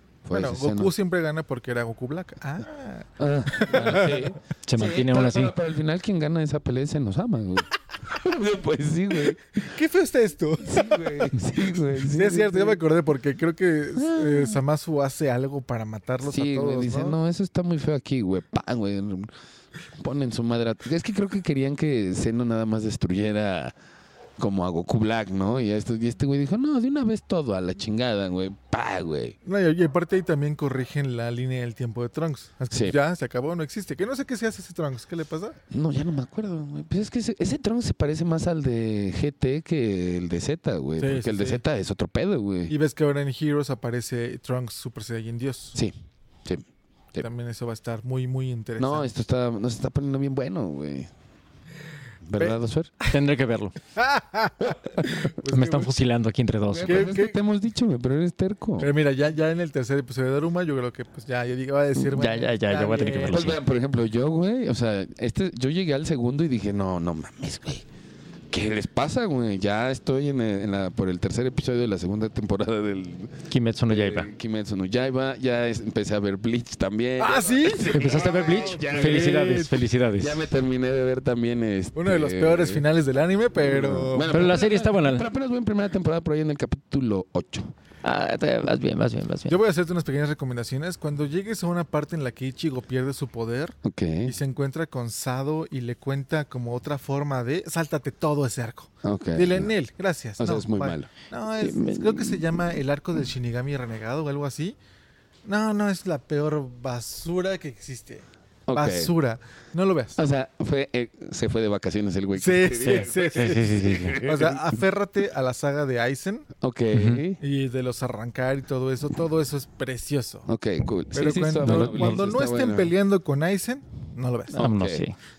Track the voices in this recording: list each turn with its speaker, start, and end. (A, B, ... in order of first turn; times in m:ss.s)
0:00.2-0:00.9 A
0:00.3-0:04.4 B
0:03.2-0:09.6 A
0:04.6-0:05.6 C
0:09.5-0:11.4 B
0:10.6-0:12.8 A
0:12.0-0:17.2 B
0:14.0-0:14.6 A
0:16.2-0:19.3 A
0:20.0-0:23.7 A
0:24.4-0:29.4 A
0:29.4-0:35.6 B
0:32.7-0:33.0 A
0:35.7-0:42.7 A
0:41.0-0:41.6 B
0:42.7-0:45.8 B
0:46.4-0:47.2 A
0:47.2-0:49.1 B
0:48.8-0:51.1 A
0:52.3-0:52.9 A
0:52.4-0:53.1 B
0:53.1-0:53.8 C
0:54.0-0:56.0 B
0:54.6-0:55.3 A
0:55.4-0:57.1 C
0:56.7-0:58.9 A
0:56.9-0:57.4 B
0:58.8-1:03.6 B
1:02.0-1:03.6 C
1:03.3-1:07.9 A
1:08.5-1:19.5 A
1:13.5-1:14.3 C
1:17.2-1:19.8 B
1:17.9-1:20.5 C
1:20.2-1:22.8 A
1:22.0-1:24.6 B
1:23.6-1:27.7 A
1:24.3-1:25.3 C
1:28.0-1:29.5 C
1:29.5-1:44.8 B
1:33.8-1:34.4 A
1:39.0-1:39.7 A
1:40.4-1:42.4 A
1:45.4-1:50.2 B
1:48.7-1:49.1 A
1:50.2-1:54.7 A
1:52.3-1:56.5 B
1:52.9-1:54.2 C
1:56.6-1:57.4 A
1:56.9-1:57.2 C
1:57.4-2:00.5 B
2:00.5-2:02.9 A
2:01.1-2:04.7 B
2:01.6-2:02.2 C
2:04.5-2:05.2 C
2:04.6-2:05.0 A